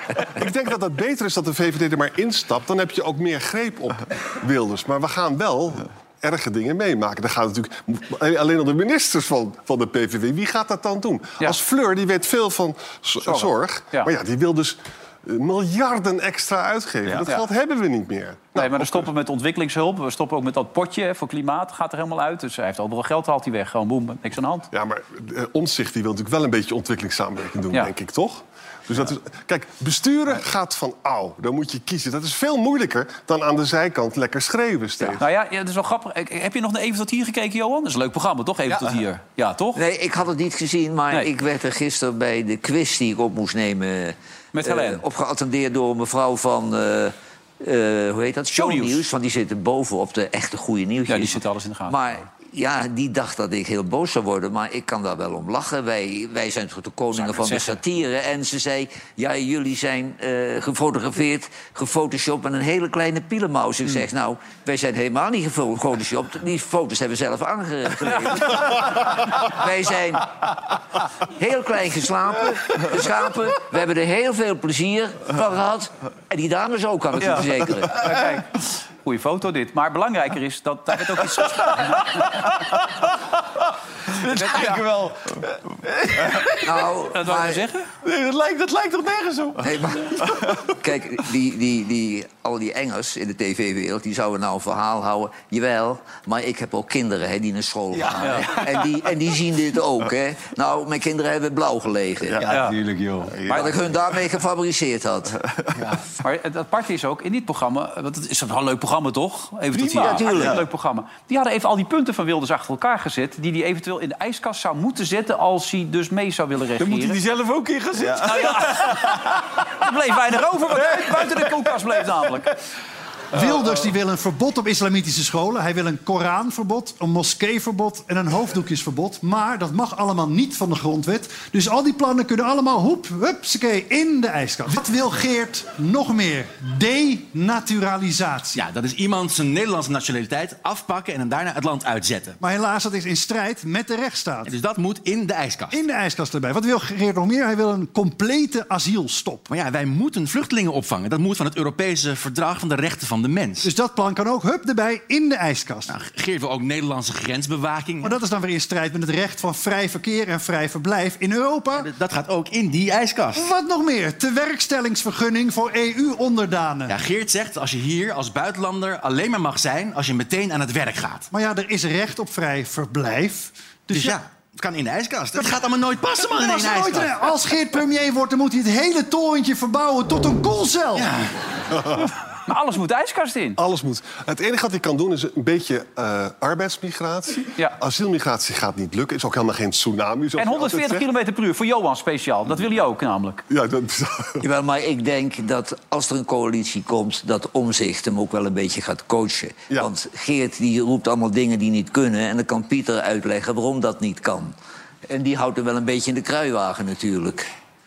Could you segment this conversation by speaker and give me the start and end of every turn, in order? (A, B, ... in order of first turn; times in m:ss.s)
0:00.4-0:19.1 A
0:13.2-0:14.1 B
0:18.5-0:24.7 B
0:24.7-0:35.2 A
0:35.0-0:39.8 B
0:39.7-1:10.5 C
0:44.5-0:45.0 B
0:48.5-0:49.0 B
0:51.1-0:52.2 B
0:57.1-0:57.8 B
1:11.3-1:18.0 C
1:17.2-1:22.4 B
1:24.1-1:26.6 D
1:26.6-1:27.6 C
1:27.1-1:27.9 B
1:28.0-1:30.5 D
1:29.6-1:42.4 C
1:38.0-1:38.6 D
1:42.3-1:43.8 D
1:42.5-1:42.8 B
1:42.6-1:43.4 E
1:43.5-1:43.7 B
1:43.5-1:45.4 C
1:45.5-1:45.8 D
1:46.2-1:57.2 B
1:49.8-1:50.6 C
1:50.2-1:50.6 D
1:56.8-1:58.3 E
1:58.0-1:59.3 D
1:58.2-2:02.6 B
2:03.3-2:18.6 F
2:18.5-2:22.4 E
2:22.4-2:24.5 F
2:24.4-2:25.8 E
2:25.7-2:29.5 F
2:29.5-2:33.7 E
2:33.6-2:35.9 F
2:35.9-2:38.2 E
2:38.0-2:41.9 F
2:41.7-2:43.5 E
2:43.3-2:47.0 F
2:46.9-2:51.3 E
2:51.3-2:54.2 F
2:53.9-2:57.1 E
2:56.3-3:01.1 F
3:01.0-3:01.3 E
3:01.7-3:02.1 A
3:02.4-3:03.6 B
3:03.6-3:11.0 A
3:10.4-3:13.4 B
3:13.5-3:14.4 A
3:14.4-3:24.5 C
3:25.1-3:27.5 C